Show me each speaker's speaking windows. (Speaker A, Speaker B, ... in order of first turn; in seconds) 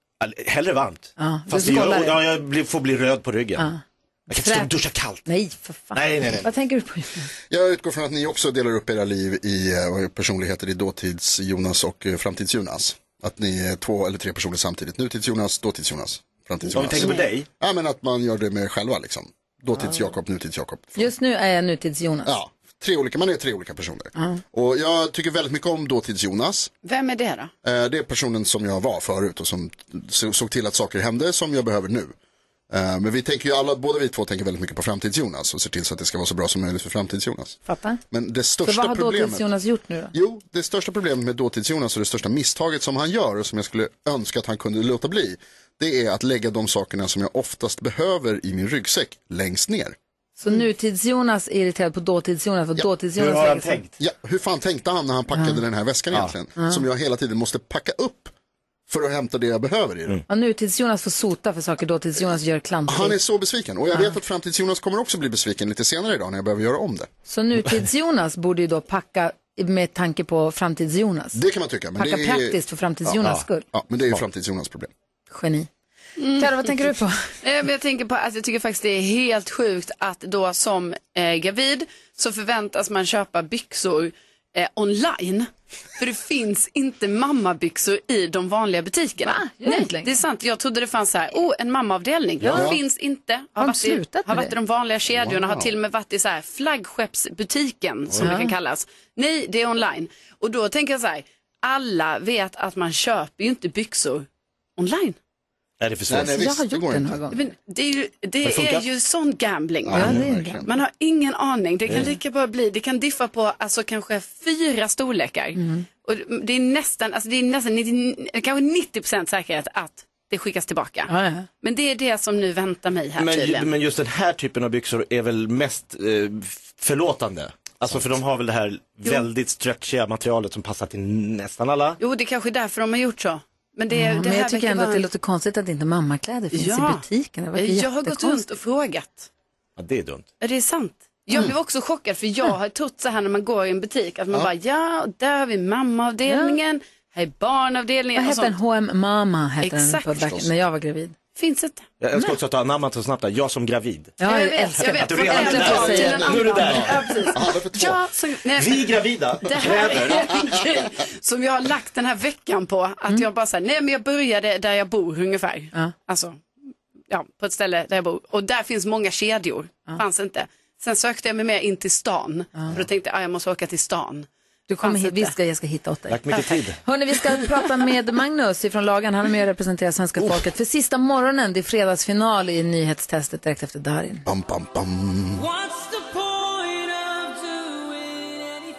Speaker A: 0.2-3.7, 4.3-5.2, 5.9-6.5, 16.7-17.5, 53.1-53.9, 105.8-106.3, 108.4-108.8, 123.2-132.0, 139.8-140.2, 152.0-154.1, 154.8-157.3, 158.5-160.4, 176.1-176.8
Speaker B: 1.2-2.2, 3.6-7.3, 21.0-22.3, 24.1-24.4, 37.6-38.0, 38.6-40.1, 50.4-53.8, 55.3-55.6, 60.3-63.2, 67.3-71.4, 72.0-73.6, 75.3-75.7, 76.3-77.3, 89.2-90.1, 93.6-94.5, 98.2-98.5, 106.2-107.4, 109.9-110.6, 115.6-115.8, 121.1-121.5, 133.9-138.4, 146.3-146.6, 148.2-151.1, 154.2-157.2, 174.7-184.2
Speaker C: 7.5-21.1, 22.2-26.7, 27.6-32.1, 32.7-37.6, 38.1-39.5, 40.1-49.9, 54.0-58.3, 58.9-60.2, 62.9-67.1, 71.3-73.1, 73.7-74.9, 92.5-92.8, 95.1-95.7, 106.1-107.2, 109.8-110.7, 156.2-158.0, 184.2-185.5
Speaker D: 26.8-27.5, 76.2-76.5, 77.4-104.2, 104.8-105.2, 107.3-123.7, 132.0-135.1, 136.5-137.0, 137.6-139.3, 140.4-148.6, 149.6-150.3, 151.3-151.9, 154.2-158.9, 159.4-166.4, 167.1-174.3, 174.8-175.3